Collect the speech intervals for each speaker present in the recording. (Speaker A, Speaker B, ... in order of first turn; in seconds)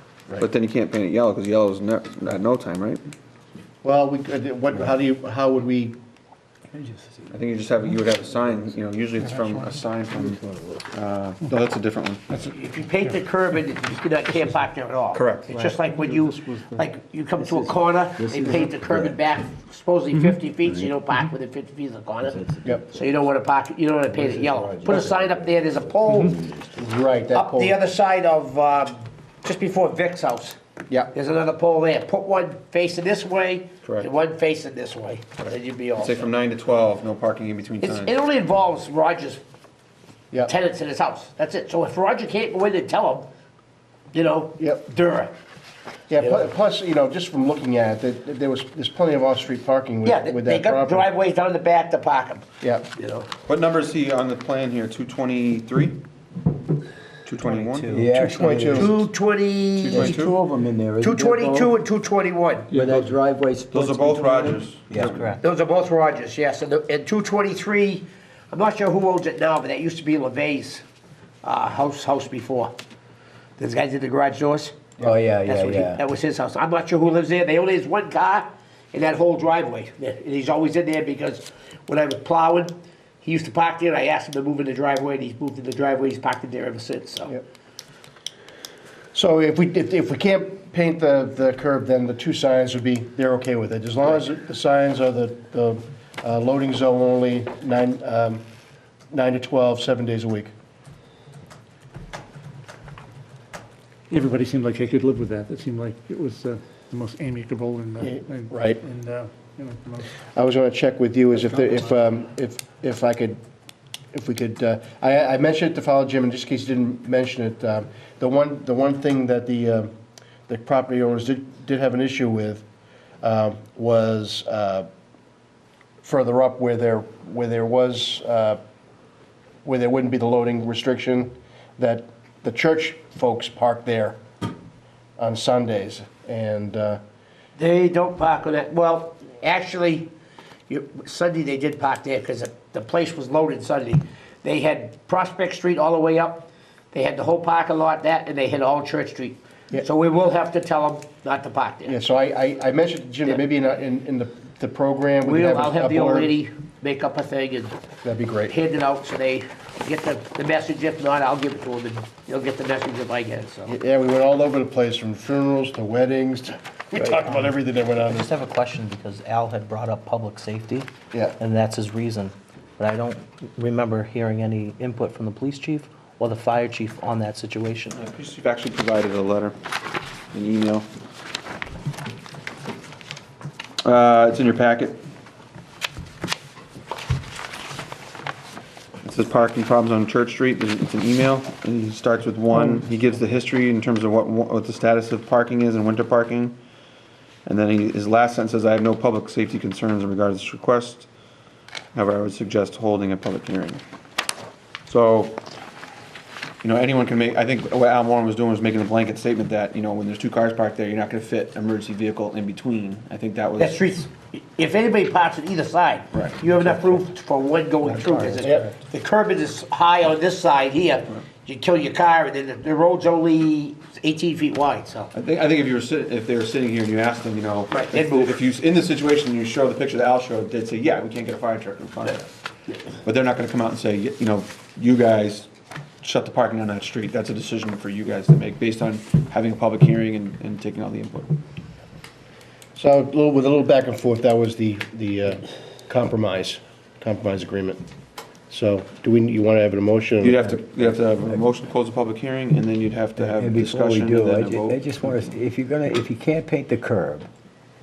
Speaker A: 0.4-3.0, 7.3-10.4, 10.9-12.2, 15.1-15.5, 35.4-38.1, 53.5-56.0, 57.2-58.0, 59.8-60.4, 62.7-63.1, 63.7-65.3, 177.9-179.5, 180.3-180.9, 183.8-185.0, 189.0-196.6, 197.4-201.1, 201.9-203.8, 204.8-205.4, 206.6-213.8, 216.1-217.0, 218.1-218.4, 225.1-232.3, 233.0-235.5, 236.0-241.3, 250.2-254.8
Speaker B: 3.8-6.0, 26.8-27.8, 46.1-51.1, 57.9-59.0, 89.1-98.4, 99.1-100.5, 108.0-108.8, 110.3-113.4, 114.1-119.9, 120.5-122.6, 123.2-124.9, 126.0-128.6, 129.6-134.2, 135.2-137.0, 151.8-156.3, 158.0-158.6, 163.7-168.3, 171.1-171.4, 218.4-218.6, 242.7-247.8, 248.5-250.6
Speaker C: 6.7-7.3, 10.4-10.8, 17.4-19.2, 22.3-22.8, 24.1-26.7, 57.9-59.0, 59.9-61.7, 62.7-65.3, 75.0-76.0, 253.2-257.3
Speaker D: 9.3-9.8, 12.3-13.2, 15.5-16.9, 104.1-110.1, 111.3-112.0
Speaker E: 12.5-26.3, 27.3-30.6, 31.1-36.3, 37.8-39.4, 40.5-43.3, 44.1-45.3, 46.2-46.5, 50.0-53.3, 58.7-60.3, 61.0-62.7, 65.4-70.8, 71.4-72.7, 73.6-87.3, 137.6-140.1, 140.7-151.9, 155.2-157.7, 158.5-163.7, 213.6-225.1, 227.7-228.4
Speaker F: 167.1-167.5, 168.1-177.9